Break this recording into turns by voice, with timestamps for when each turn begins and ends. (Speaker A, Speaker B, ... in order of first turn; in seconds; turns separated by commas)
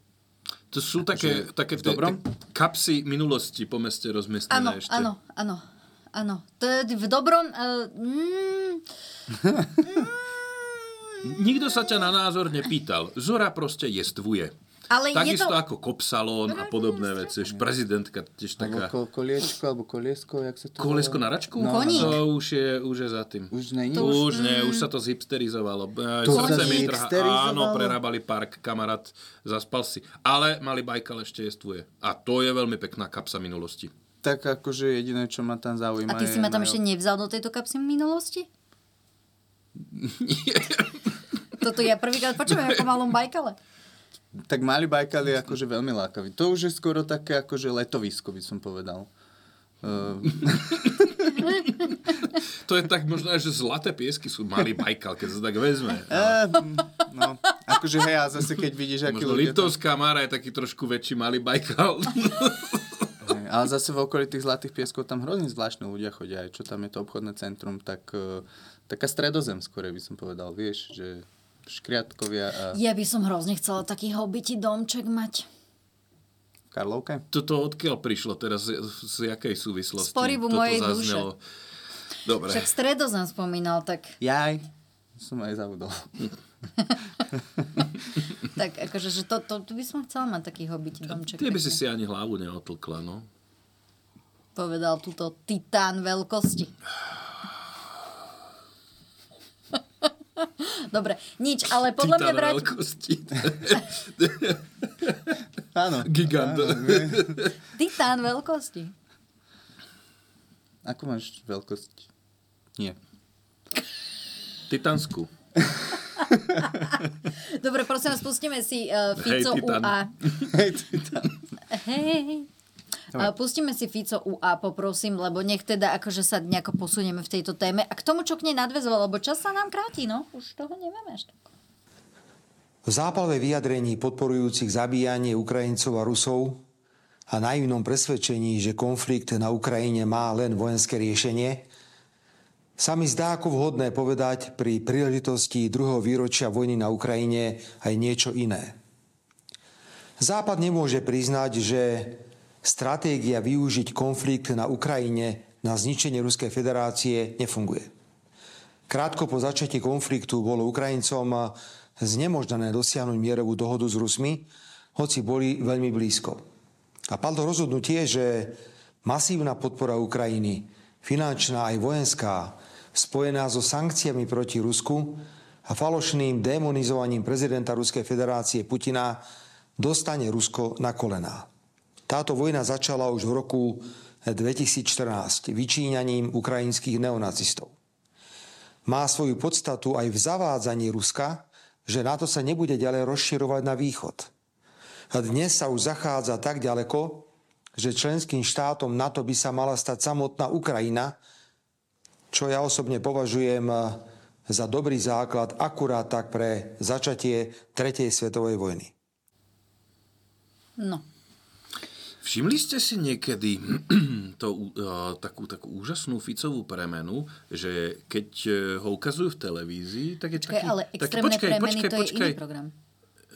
Speaker A: 0.7-5.1, Speaker B: 1.1-2.2, Speaker C: 4.5-5.6, Speaker C: 6.1-8.8, Speaker B: 9.4-9.7, Speaker C: 9.8-10.2, Speaker A: 11.2-14.5, Speaker C: 14.9-15.6, Speaker A: 15.1-18.9, Speaker C: 16.5-17.3, Speaker B: 18.6-22.2, Speaker A: 20.8-33.9, Speaker C: 21.6-22.2, Speaker B: 23.5-24.3, Speaker C: 23.9-24.9, Speaker B: 26.2-28.0, Speaker C: 26.3-26.9, Speaker B: 34.2-36.8, Speaker C: 36.1-38.5, Speaker A: 39.9-41.1, Speaker C: 41.6-43.6, Speaker B: 44.5-49.1, Speaker B: 49.8-50.9, Speaker A: 50.8-51.1, Speaker A: 52.6-56.4, Speaker B: 56.1-59.8, Speaker A: 59.1-63.1, Speaker B: 63.2-72.8, Speaker C: 72.7-75.5, Speaker B: 76.7-77.2, Speaker A: 77.3-81.4, Speaker C: 80.0-81.3, Speaker A: 82.3-82.7, Speaker C: 82.5-84.2, Speaker B: 84.2-84.7, Speaker B: 85.2-86.2, Speaker C: 88.5-91.8, Speaker A: 91.1-93.3, Speaker C: 94.6-96.7, Speaker C: 100.4-102.7, Speaker A: 102.0-105.4, Speaker B: 105.7-107.4, Speaker A: 106.0-107.5, Speaker C: 107.8-108.9, Speaker B: 110.8-112.1, Speaker A: 114.7-115.3, Speaker C: 116.6-120.1, Speaker A: 119.2-120.3, Speaker B: 120.4-121.3, Speaker C: 121.7-122.5, Speaker C: 123.1-131.4, Speaker D: 132.8-136.6, Speaker D: 137.3-141.7, Speaker D: 142.8-148.8, Speaker D: 150.2-157.9, Speaker D: 158.9-166.4, Speaker D: 167.1-179.2, Speaker D: 179.8-181.5, Speaker D: 182.1-187.7, Speaker D: 188.8-194.3, Speaker D: 195.1-201.2, Speaker D: 202.3-208.9, Speaker C: 210.8-211.0, Speaker A: 212.2-222.4, Speaker C: 220.4-222.7